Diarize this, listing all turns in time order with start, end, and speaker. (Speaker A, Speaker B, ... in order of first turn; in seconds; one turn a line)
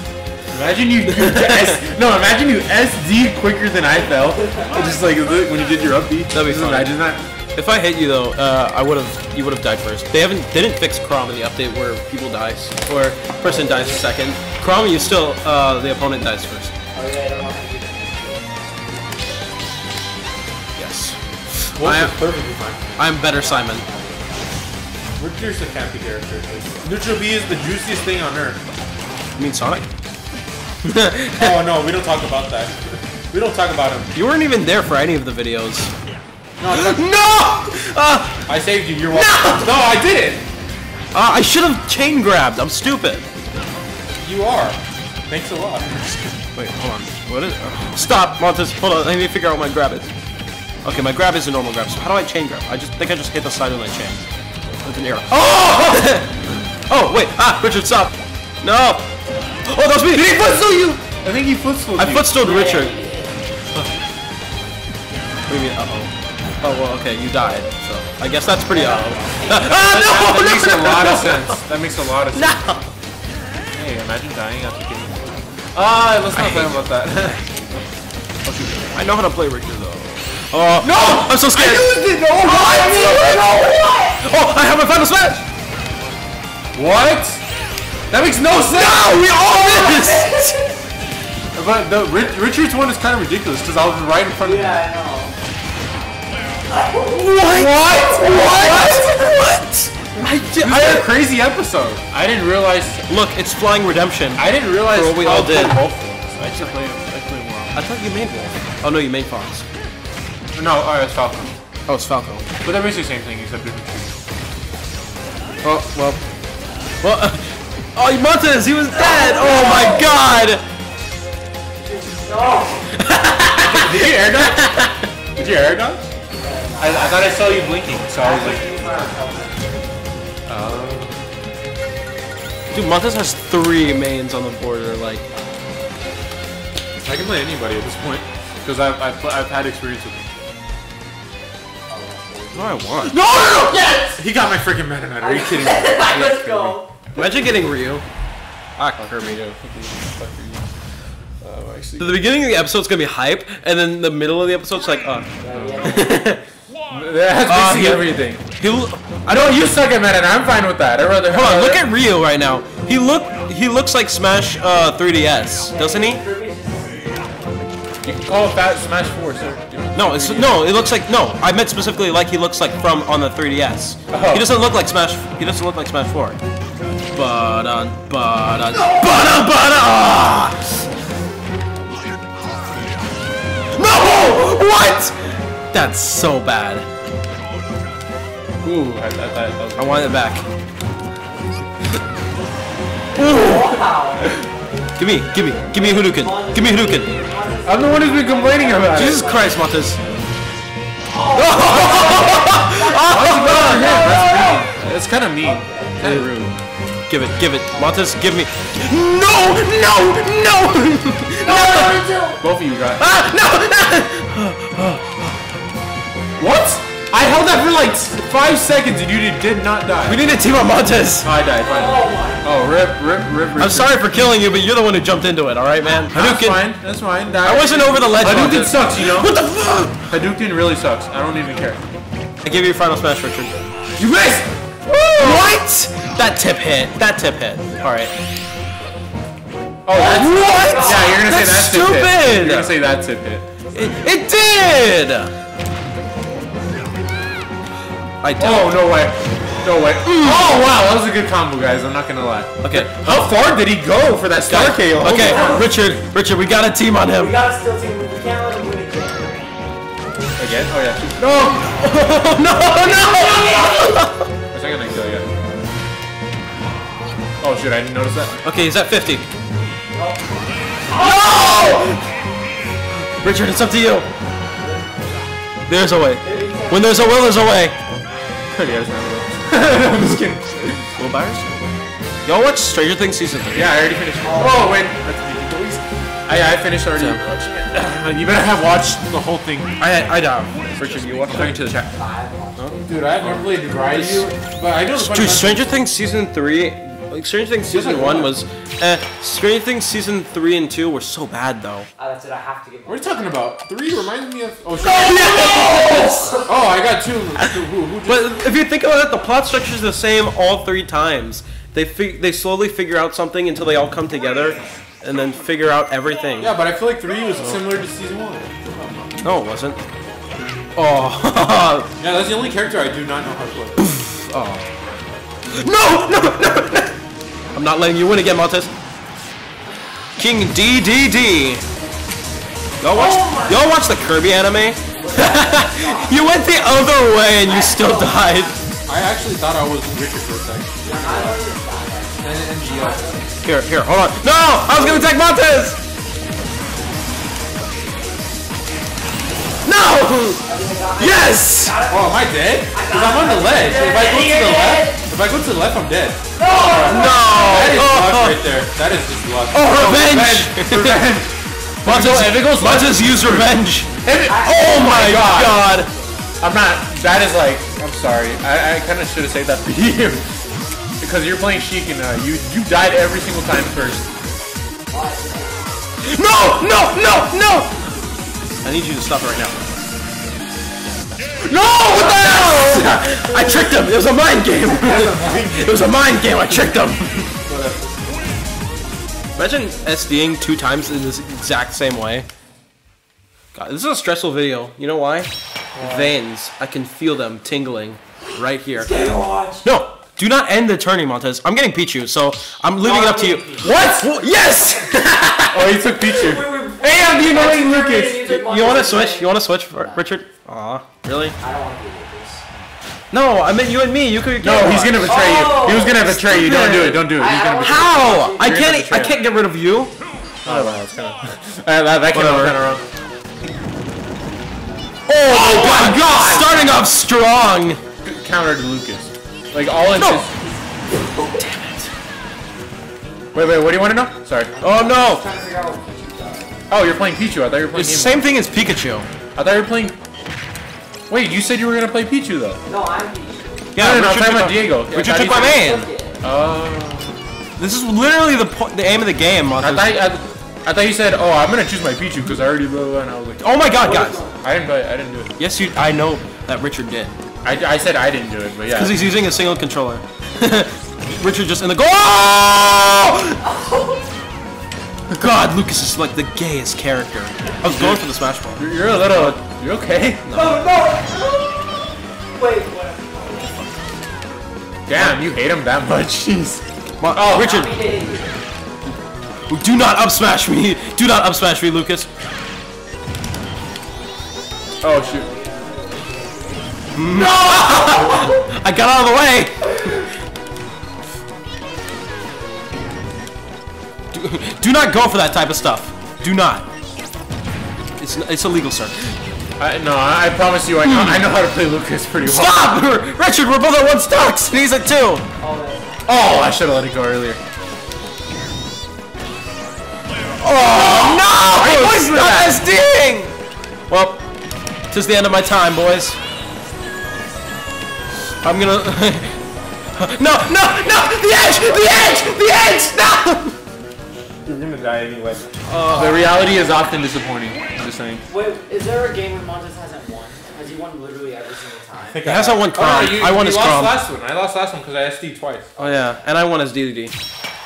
Speaker A: 0.5-7.2
Speaker B: 1.2-1.8
Speaker B: 6.3-7.0
Speaker B: 7.5-16.7
Speaker C: 13.4-14.1
Speaker C: 16.9-18.5
Speaker B: 20.8-22.2
Speaker A: 21.8-23.0
Speaker B: 23.0-23.8
Speaker C: 23.1-24.6
Speaker A: 25.2-28.6
Speaker B: 29.4-29.8
Speaker B: 30.8-31.7
Speaker A: 31.4-34.1
Speaker B: 34.1-35.9
Speaker A: 36.6-37.0
Speaker B: 36.7-38.4
Speaker A: 38.5-40.4
Speaker B: 39.1-39.7
Speaker B: 41.1-43.3
Speaker A: 44.2-45.9
Speaker B: 46.5-50.1
Speaker B: 50.8-54.2
Speaker B: 54.8-59.0
Speaker B: 59.7-60.4
Speaker A: 60.1-62.3
Speaker B: 62.0-62.9
Speaker C: 62.4-63.4
Speaker B: 65.5-71.6
Speaker C: 68.7-69.6
Speaker A: 69.6-72.6
Speaker B: 72.3-72.9
Speaker A: 73.7-77.5
Speaker B: 76.3-76.8
Speaker A: 78.5-78.8
Speaker B: 78.9-85.4
Speaker A: 80.8-83.4
Speaker C: 82.4-84.2
Speaker A: 86.7-87.4
Speaker A: 88.1-89.7
Speaker B: 88.7-90.6
Speaker C: 89.4-90.7
Speaker A: 91.5-94.8
Speaker C: 94.4-95.3
Speaker C: 96.7-97.2
Speaker B: 97.0-101.1
Speaker A: 97.4-99.2
Speaker A: 100.6-103.0
Speaker B: 103.1-105.8
Speaker A: 104.4-107.8
Speaker B: 107.7-109.7
Speaker A: 110.5-111.5
Speaker B: 111.9-112.5
Speaker A: 112.6-114.1
Speaker B: 115.6-116.2
Speaker B: 117.0-120.6
Speaker C: 118.9-120.2
Speaker C: 121.8-123.1
Speaker B: 123.0-125.0
Speaker A: 123.5-126.0
Speaker C: 126.4-129.9
Speaker A: 126.8-129.2
Speaker A: 130.5-131.2
Speaker B: 132.7-135.2
Speaker A: 137.0-140.2
Speaker C: 141.9-144.2
Speaker B: 142.5-143.2
Speaker A: 143.0-146.8
Speaker C: 145.2-146.9
Speaker B: 147.1-148.0
Speaker B: 148.8-149.5
Speaker A: 149.0-150.7
Speaker A: 151.4-152.2
Speaker B: 152.0-156.4
Speaker C: 155.4-156.2
Speaker A: 155.5-156.0
Speaker A: 156.9-158.4
Speaker B: 157.5-159.7
Speaker A: 159.3-161.8
Speaker B: 161.3-166.2
Speaker C: 165.7-167.4
Speaker A: 168.0-170.8
Speaker B: 169.9-176.4
Speaker A: 174.1-174.4
Speaker B: 177.1-180.6
Speaker B: 183.7-186.8
Speaker A: 188.6-190.2
Speaker B: 189.8-190.4
Speaker C: 193.1-194.4
Speaker B: 193.1-193.8
Speaker B: 195.0-197.1
Speaker C: 195.4-199.6
Speaker A: 197.6-199.2
Speaker B: 198.9-200.0
Speaker C: 201.1-204.7
Speaker B: 201.3-204.4
Speaker A: 201.8-202.2
Speaker A: 203.0-206.3
Speaker C: 205.4-206.0
Speaker B: 206.0-206.5
Speaker B: 207.1-212.0
Speaker C: 211.4-212.4
Speaker A: 212.4-213.1
Speaker B: 213.0-215.4
Speaker A: 216.4-220.3
Speaker B: 220.1-221.3
Speaker A: 221.2-224.4
Speaker C: 221.5-222.5
Speaker B: 223.6-226.6
Speaker A: 226.1-229.3
Speaker B: 227.4-230.1
Speaker A: 230.1-231.8
Speaker B: 232.4-233.5
Speaker A: 234.0-234.5
Speaker B: 234.9-238.1
Speaker A: 235.2-235.5
Speaker A: 239.8-243.5
Speaker B: 239.9-242.7
Speaker C: 240.2-241.2
Speaker B: 243.7-245.3
Speaker B: 248.2-248.8
Speaker A: 248.4-255.7
Speaker B: 250.0-250.6
Speaker B: 252.6-253.2
Speaker B: 254.5-257.3
Speaker C: 255.1-255.8
Speaker C: 257.1-259.5
Speaker A: 260.4-261.6
Speaker B: 261.2-264.3
Speaker C: 262.6-264.1
Speaker A: 264.5-265.3
Speaker A: 267.4-268.4
Speaker B: 268.4-269.3
Speaker C: 269.9-271.3
Speaker B: 270.9-272.0
Speaker B: 273.0-274.1
Speaker C: 274.6-275.2
Speaker B: 275.7-277.8
Speaker C: 276.2-277.0
Speaker A: 278.6-280.8
Speaker B: 279.8-280.3
Speaker B: 280.8-281.6
Speaker B: 282.2-283.8
Speaker A: 283.5-289.8
Speaker C: 284.2-284.8
Speaker B: 289.8-291.7
Speaker A: 290.7-291.9
Speaker C: 291.9-293.0
Speaker B: 292.6-294.3
Speaker A: 292.8-295.6
Speaker B: 294.9-301.9
Speaker A: 297.7-298.4
Speaker C: 302.0-303.1
Speaker A: 302.9-305.5
Speaker B: 304.8-306.4
Speaker C: 304.8-306.5
Speaker A: 306.4-308.4
Speaker B: 307.4-316.6
Speaker A: 316.4-319.2
Speaker B: 319.2-319.8
Speaker B: 320.8-321.9
Speaker A: 322.0-323.8
Speaker B: 323.8-324.7
Speaker B: 325.5-327.0
Speaker B: 327.5-328.7
Speaker B: 330.2-331.6
Speaker B: 332.8-338.5
Speaker C: 332.9-333.7
Speaker C: 335.0-336.4
Speaker C: 337.4-338.6
Speaker A: 338.9-341.4
Speaker C: 340.8-343.4
Speaker A: 342.2-343.1
Speaker B: 343.4-345.8
Speaker B: 349.6-350.4
Speaker C: 350.4-355.0
Speaker B: 351.0-351.8
Speaker A: 351.9-361.3
Speaker C: 356.4-357.9
Speaker B: 356.7-358.5
Speaker B: 359.5-361.1
Speaker B: 361.8-365.9
Speaker A: 361.8-365.7
Speaker C: 364.2-365.2
Speaker A: 366.4-370.2
Speaker A: 371.0-374.1
Speaker C: 374.9-375.8
Speaker B: 376.0-377.9
Speaker B: 378.6-379.7
Speaker A: 381.4-383.2
Speaker B: 381.9-387.4
Speaker A: 384.6-385.9
Speaker A: 387.4-388.0
Speaker B: 389.3-392.3
Speaker B: 393.5-399.0
Speaker A: 395.7-396.1
Speaker C: 398.8-399.6
Speaker B: 399.6-405.9
Speaker C: 402.8-403.9
Speaker A: 403.6-404.1
Speaker A: 405.5-408.3
Speaker C: 406.1-410.1
Speaker B: 408.2-411.4
Speaker C: 411.4-412.7
Speaker B: 413.1-419.9
Speaker A: 414.4-419.1
Speaker C: 415.1-416.2
Speaker C: 417.0-418.6
Speaker A: 420.4-422.8
Speaker B: 420.4-420.8
Speaker B: 422.1-422.6
Speaker B: 425.1-427.8
Speaker A: 425.2-426.6
Speaker C: 425.3-426.5
Speaker A: 428.0-430.3
Speaker B: 429.9-430.2
Speaker C: 430.9-431.4
Speaker B: 431.2-431.9
Speaker A: 433.3-434.5
Speaker C: 434.5-436.6
Speaker B: 434.6-435.2
Speaker A: 436.7-438.2
Speaker B: 437.7-439.1
Speaker A: 439.3-440.0
Speaker A: 441.1-442.6
Speaker C: 442.6-443.7
Speaker B: 443.7-445.9
Speaker A: 443.8-445.6
Speaker C: 445.1-446.2
Speaker A: 446.2-447.1
Speaker B: 447.6-450.0
Speaker A: 449.6-453.4
Speaker B: 453.4-454.2
Speaker C: 453.7-454.4
Speaker A: 454.4-455.3
Speaker B: 455.4-457.2
Speaker A: 457.4-459.0
Speaker B: 458.7-463.4
Speaker C: 463.4-464.1
Speaker B: 465.1-469.3
Speaker A: 467.6-468.0
Speaker A: 468.5-470.2
Speaker B: 470.2-470.6
Speaker C: 470.3-473.7
Speaker A: 474.9-477.6
Speaker B: 477.0-477.7
Speaker C: 477.3-478.4
Speaker B: 479.5-482.1
Speaker A: 484.8-485.3
Speaker C: 484.8-488.4
Speaker B: 486.9-490.0
Speaker B: 494.1-496.7
Speaker B: 498.0-499.1
Speaker A: 499.6-502.7
Speaker B: 500.8-501.2
Speaker B: 502.2-505.2
Speaker C: 505.4-506.1
Speaker A: 506.1-507.4
Speaker B: 510.4-513.3
Speaker A: 510.7-512.6
Speaker B: 513.9-514.2
Speaker B: 514.9-516.2
Speaker B: 518.4-519.4
Speaker B: 519.9-523.5
Speaker A: 524.4-528.2
Speaker B: 525.6-526.3
Speaker C: 525.7-526.8
Speaker C: 528.3-532.3
Speaker A: 532.1-535.7
Speaker B: 532.2-534.0
Speaker B: 535.8-537.1